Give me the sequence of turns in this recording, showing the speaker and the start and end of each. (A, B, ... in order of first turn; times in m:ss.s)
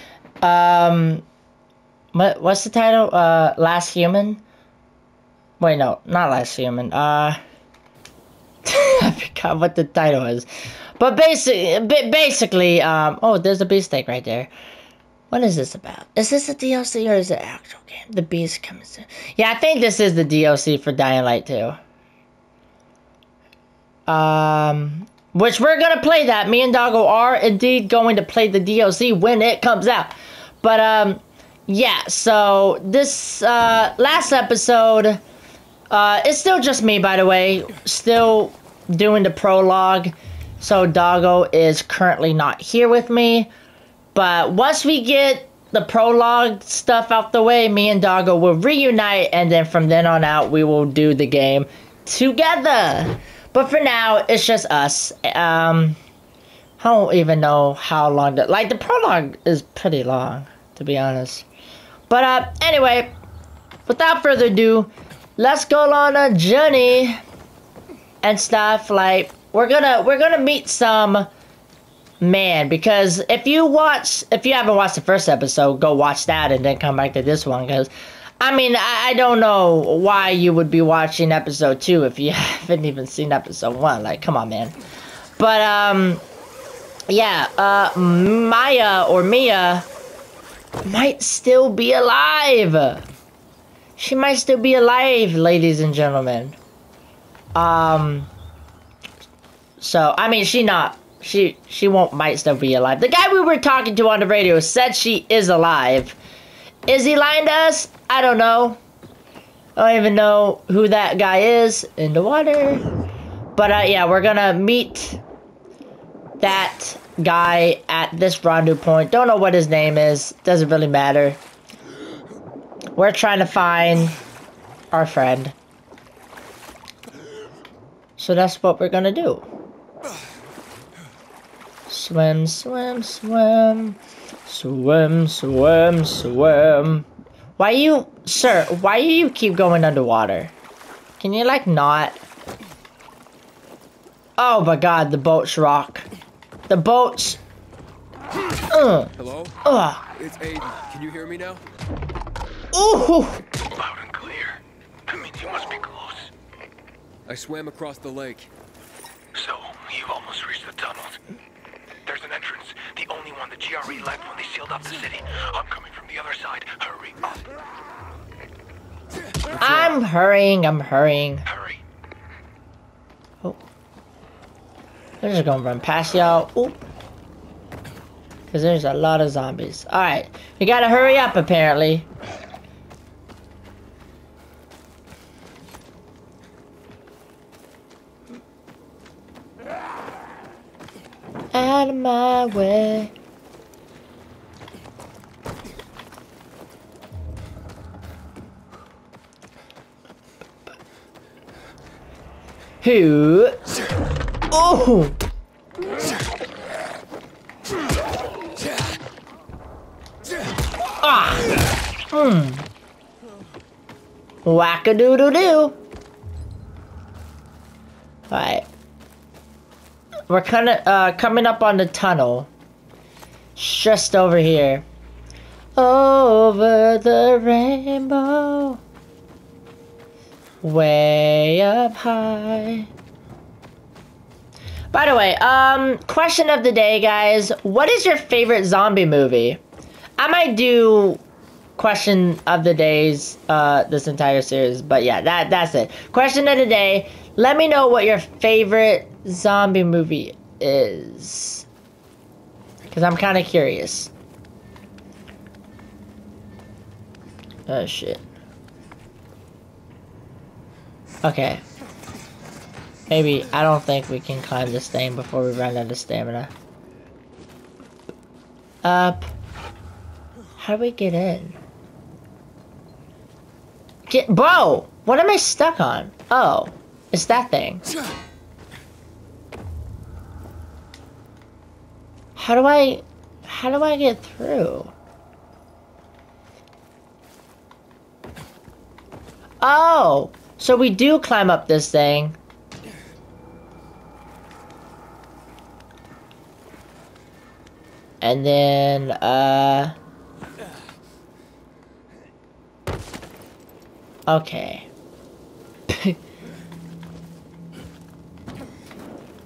0:00.4-0:01.2 A
0:02.1-0:04.4 A
0:05.6-0:07.4 A
0:08.6-0:14.5 A
0:15.3-0:21.8 A
0:24.1-0:35.2 A
0:35.9-0:43.5 A
0:44.1-0:56.0 A
0:56.8-1:01.4 A
1:02.1-1:03.1 A
1:03.9-1:07.2 A
1:08.2-1:11.3 A
1:12.2-1:24.8 A
1:25.4-1:26.2 A
1:27.1-1:29.8 A
1:30.8-1:33.0 A
1:34.0-1:36.6 A
1:37.5-1:38.3 A
1:39.8-1:46.2 A
1:46.9-1:48.8 A
1:49.8-1:52.8 A
1:53.6-1:55.2 A
1:56.4-2:01.4 A
2:03.0-2:04.2 A
2:04.9-2:05.5 A
2:08.2-2:09.4 A
2:11.9-2:17.0 A
2:17.6-2:20.5 A
2:21.2-2:22.2 A
2:24.4-2:26.0 A
2:26.7-2:27.4 A
2:28.7-2:29.1 A
2:29.2-2:29.6 B
2:29.6-2:30.0 A
2:30.1-2:31.6 B
2:32.7-2:33.4 A
2:33.8-2:34.6 B
2:35.1-2:36.3 C
2:37.3-2:38.5 B
2:39.4-2:40.9 B
2:39.4-2:41.1 C
2:42.1-2:46.6 B
2:42.1-2:47.2 C
2:49.6-2:51.4 A
2:55.2-2:56.8 A
2:58.5-3:02.1 A
3:11.5-3:13.1 A
3:22.8-3:23.6 A
3:24.5-3:25.2 A
3:31.0-3:31.5 A
3:32.1-3:32.7 A
3:34.4-3:35.8 A
3:38.3-3:38.7 A
3:40.3-3:42.5 A
3:43.6-3:44.8 A
3:45.8-3:48.8 A
3:50.6-3:52.9 A
3:54.9-3:59.6 A
4:00.2-4:01.2 A
4:01.8-4:11.6 A
4:12.8-4:14.1 A
4:17.7-4:18.2 A
4:21.2-4:21.6 A
4:23.1-4:26.5 A
4:28.8-4:29.3 A
4:30.6-4:31.6 A
4:34.1-4:37.8 A
4:42.4-4:44.9 A
4:49.6-4:52.4 A
4:58.2-4:59.9 A
5:04.3-5:04.9 A
5:05.9-5:06.2 A